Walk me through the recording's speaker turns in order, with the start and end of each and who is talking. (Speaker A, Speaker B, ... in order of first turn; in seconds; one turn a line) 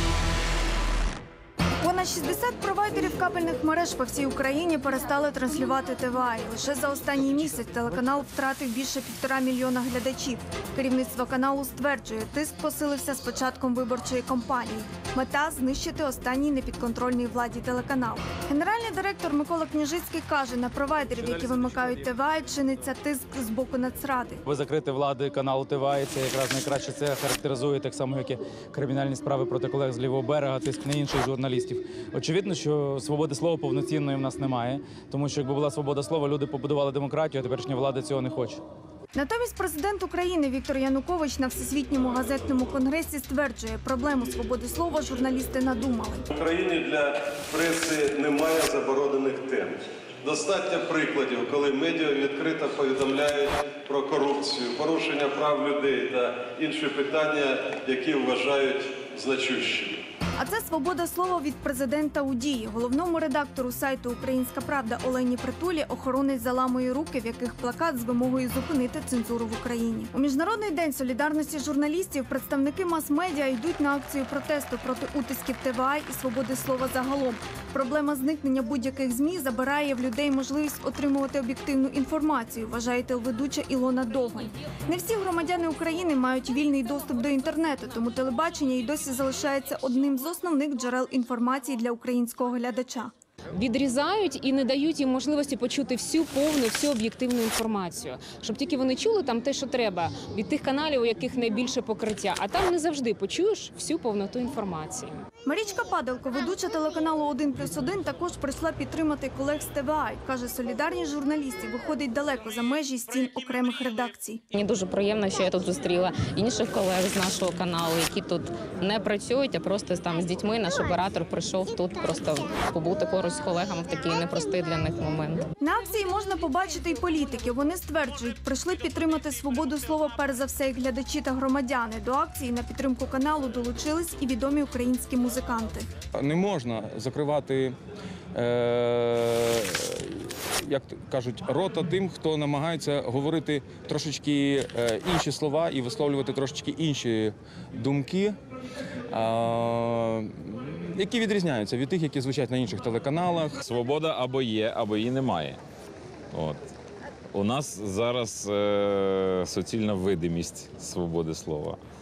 Speaker A: 1.8-24.4
Speaker B: 21.2-22.0
Speaker B: 24.4-38.6
Speaker A: 39.1-46.2
Speaker C: 46.3-60.0
Speaker A: 60.4-93.1
Speaker D: 93.5-105.2
Speaker A: 105.5-114.5
Speaker E: 114.5-125.5
Speaker A: 125.6-135.9
Speaker F: 136.2-137.8
Speaker F: 138.3-148.4
Speaker F: 149.1-153.6
Speaker G: 153.6-155.6
Speaker G: 156.3-156.7
Speaker G: 157.3-161.8